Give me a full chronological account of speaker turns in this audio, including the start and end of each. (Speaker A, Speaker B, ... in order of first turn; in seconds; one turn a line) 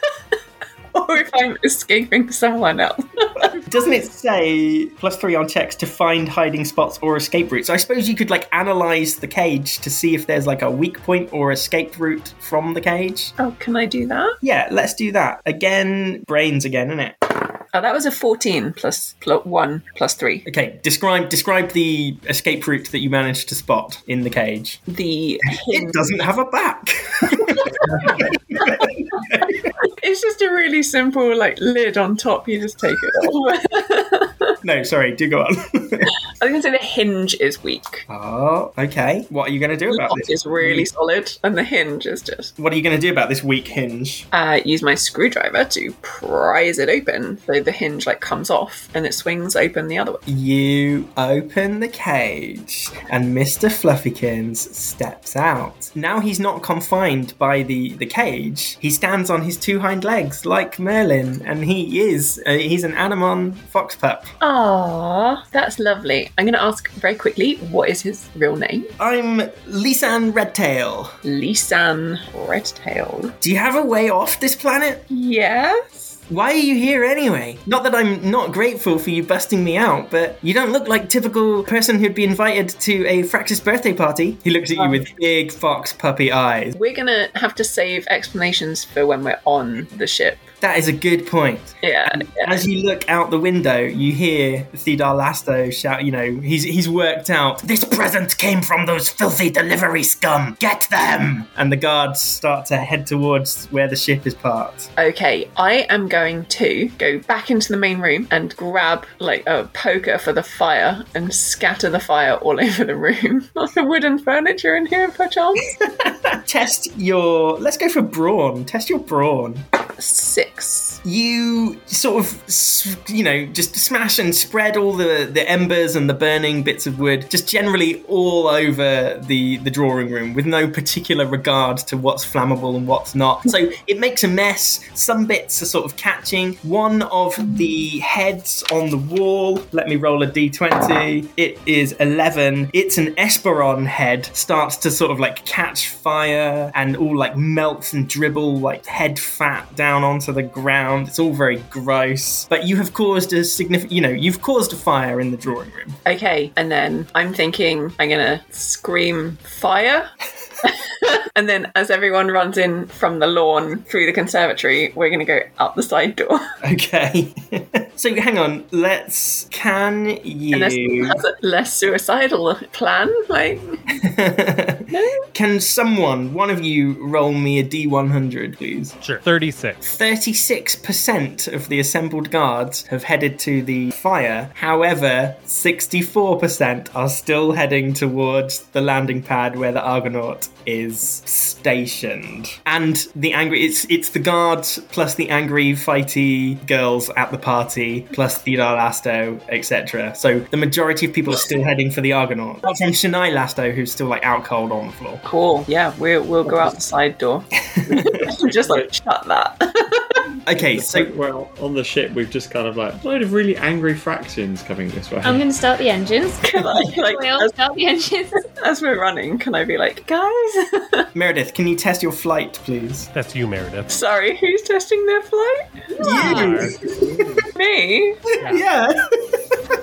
Speaker A: 0.9-3.5
Speaker B: 3.4-13.3
Speaker A: 13.4-14.4
Speaker B: 14.4-17.1
Speaker A: 17.7-20.4
Speaker B: 20.4-24.8
Speaker A: 24.9-26.0
Speaker B: 25.5-29.6
Speaker A: 27.6-28.1
Speaker A: 29.8-34.5
Speaker B: 34.6-36.1
Speaker A: 36.4-38.0
Speaker B: 38.1-40.9
Speaker A: 39.9-42.5
Speaker B: 42.6-44.3
Speaker A: 44.3-50.2
Speaker B: 50.2-64.3
Speaker A: 64.4-68.9
Speaker B: 69.0-71.2
Speaker A: 71.2-73.3
Speaker B: 73.4-75.0
Speaker A: 75.1-76.2
Speaker B: 76.3-86.7
Speaker A: 84.8-85.0
Speaker A: 86.7-90.5
Speaker B: 90.6-97.7
Speaker A: 91.8-92.6
Speaker C: 97.6-101.5
Speaker B: 101.5-104.9
Speaker A: 105.0-115.7
Speaker B: 115.9-119.6
Speaker A: 120.0-121.0
Speaker B: 121.0-156.0
Speaker A: 156.0-160.1
Speaker A: 160.6-166.5
Speaker B: 166.6-171.2
Speaker A: 170.5-173.8
Speaker B: 173.9-179.0
Speaker A: 174.9-175.2
Speaker D: 179.0-179.8
Speaker B: 179.8-205.2
Speaker A: 205.2-210.2
Speaker B: 207.9-208.2
Speaker B: 210.4-211.1
Speaker E: 210.5-215.4
Speaker F: 215.2-218.4
Speaker A: 216.4-217.5
Speaker A: 218.4-221.1
Speaker B: 221.1-223.1
Speaker D: 223.1-223.9
Speaker A: 223.9-225.6
Speaker B: 226.0-227.3
Speaker F: 226.0-226.5
Speaker D: 226.2-226.7
Speaker E: 226.9-227.4
Speaker A: 227.5-228.2
Speaker B: 228.4-229.7